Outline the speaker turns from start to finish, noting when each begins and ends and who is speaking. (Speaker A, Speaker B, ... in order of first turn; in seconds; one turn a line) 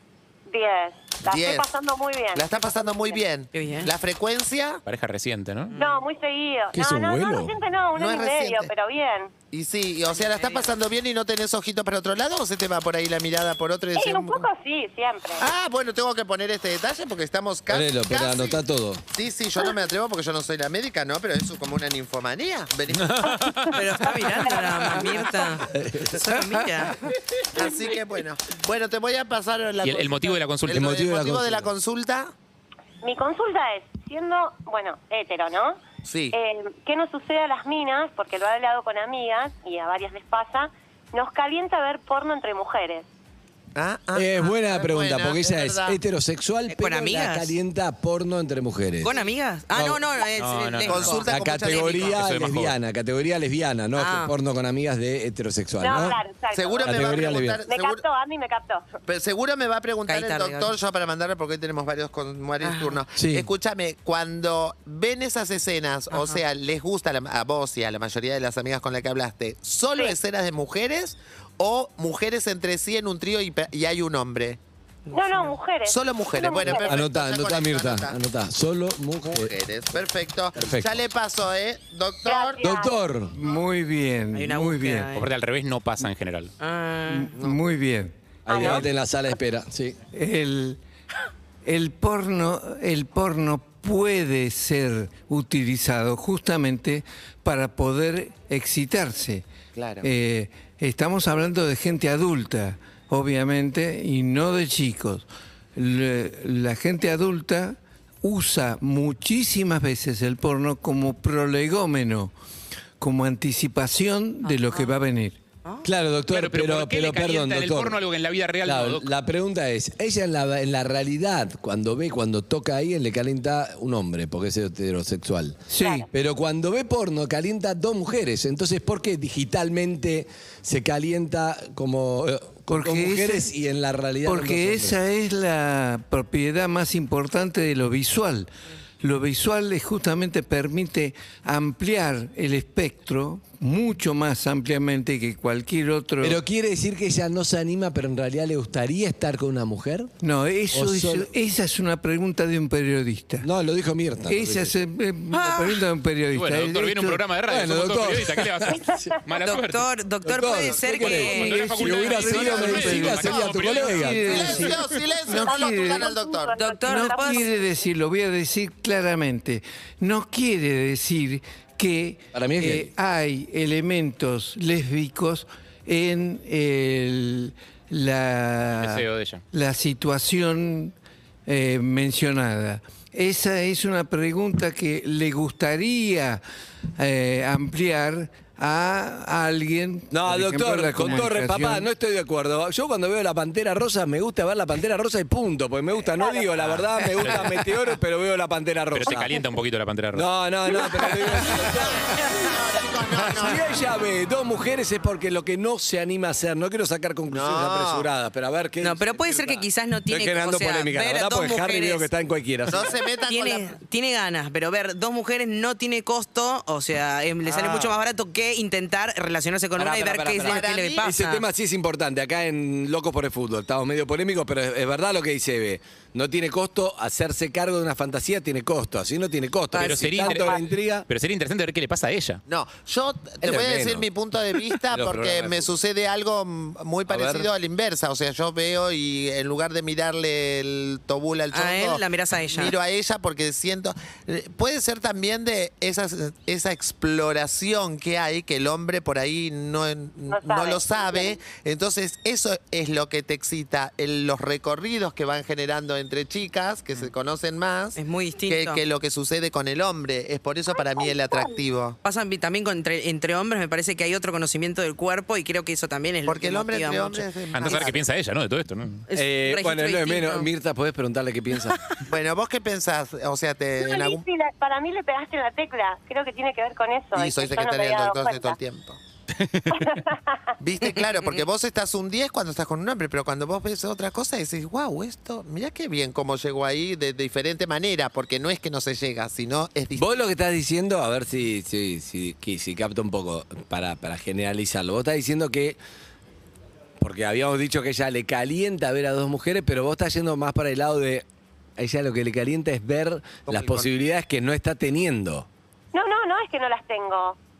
Speaker A: 0.5-3.2
Speaker B: 1.2-1.7
Speaker B: 2.3-4.8
Speaker C: 3.5-3.9
Speaker D: 4.8-5.7
Speaker C: 5.7-6.0
Speaker A: 5.7-9.3
Speaker E: 6.7-7.5
Speaker B: 7.9-8.7
Speaker B: 9.5-14.5
Speaker C: 10.1-10.7
Speaker A: 13.9-15.5
Speaker B: 15.4-18.6
Speaker E: 17.7-19.0
Speaker B: 19.1-23.7
Speaker D: 23.0-23.8
Speaker C: 23.7-27.0
Speaker E: 25.7-26.3
Speaker B: 27.5-32.3
Speaker D: 29.8-30.9
Speaker E: 30.7-31.7
Speaker A: 33.0-35.8
Speaker B: 36.0-36.3
Speaker A: 36.3-43.0
Speaker B: 43.7-46.0
Speaker E: 44.1-49.2
Speaker C: 46.7-47.5
Speaker C: 49.0-51.2
Speaker E: 49.7-50.0
Speaker D: 50.4-52.7
Speaker B: 50.8-52.2
Speaker E: 51.0-56.2
Speaker C: 53.9-54.3
Speaker A: 55.8-58.9
Speaker B: 56.5-58.0
Speaker E: 56.8-57.6
Speaker B: 59.0-74.6
Speaker C: 60.1-60.7
Speaker C: 62.6-63.0
Speaker E: 63.1-63.5
Speaker C: 66.1-66.4
Speaker C: 75.1-75.5
Speaker A: 75.1-77.0
Speaker B: 75.9-78.2
Speaker E: 76.8-79.5
Speaker B: 79.2-82.6
Speaker E: 80.5-81.0
Speaker A: 82.2-82.9
Speaker E: 82.6-83.3
Speaker F: 83.3-85.1
Speaker C: 84.3-85.3
Speaker D: 85.1-86.5
Speaker C: 86.6-87.3
Speaker F: 87.1-88.1
Speaker E: 88.5-90.0
Speaker A: 88.5-88.8
Speaker F: 90.1-90.8
Speaker F: 91.6-99.4
Speaker B: 99.7-100.1
Speaker F: 100.0-112.3
Speaker F: 113.0-115.4
Speaker C: 114.4-114.9
Speaker E: 115.8-118.0
Speaker D: 116.3-119.1
Speaker E: 118.6-125.6
Speaker F: 125.7-126.1
Speaker A: 125.8-126.1
Speaker E: 126.1-135.0
Speaker F: 132.7-133.5
Speaker F: 134.2-146.4
Speaker E: 146.2-150.1
Speaker F: 150.2-153.5
Speaker E: 150.7-151.3
Speaker E: 153.4-154.7
Speaker F: 154.2-157.2
Speaker C: 155.4-155.8
Speaker D: 156.3-159.9
Speaker E: 157.5-159.1
Speaker C: 159.4-161.7
Speaker E: 160.2-164.7
Speaker D: 160.5-164.5
Speaker F: 161.1-166.1
Speaker B: 164.3-166.6
Speaker A: 165.3-167.8
Speaker C: 166.6-167.4
Speaker F: 166.9-180.9
Speaker E: 172.3-172.9
Speaker D: 178.8-179.4
Speaker F: 181.4-186.4
Speaker F: 187.0-191.9
Speaker E: 190.1-199.3
Speaker D: 196.6-197.7
Speaker D: 198.9-200.3
Speaker E: 200.1-202.5
Speaker B: 202.3-203.6
Speaker E: 203.1-213.0
Speaker B: 207.3-208.1
Speaker C: 208.8-212.1
Speaker B: 212.7-213.8
Speaker C: 213.3-221.4
Speaker E: 217.4-218.0
Speaker E: 219.8-231.1
Speaker B: 220.4-221.1
Speaker C: 229.7-230.6
Speaker D: 229.8-232.4
Speaker B: 232.5-262.0
Speaker E: 233.4-234.1
Speaker E: 234.9-235.7
Speaker E: 237.1-237.5
Speaker C: 241.5-242.8
Speaker A: 250.3-251.4
Speaker C: 257.9-258.8
Speaker C: 262.0-267.8
Speaker B: 266.2-268.0
Speaker D: 267.5-269.1
Speaker C: 269.1-270.5
Speaker E: 269.1-271.8
Speaker B: 272.1-274.2
Speaker A: 273.8-278.6
Speaker B: 277.1-279.0
Speaker D: 279.4-280.0
Speaker A: 279.7-280.5
Speaker B: 280.6-290.1
Speaker E: 289.9-295.8
Speaker E: 297.0-301.2
Speaker E: 301.8-305.5
Speaker B: 303.5-303.9
Speaker A: 305.9-307.4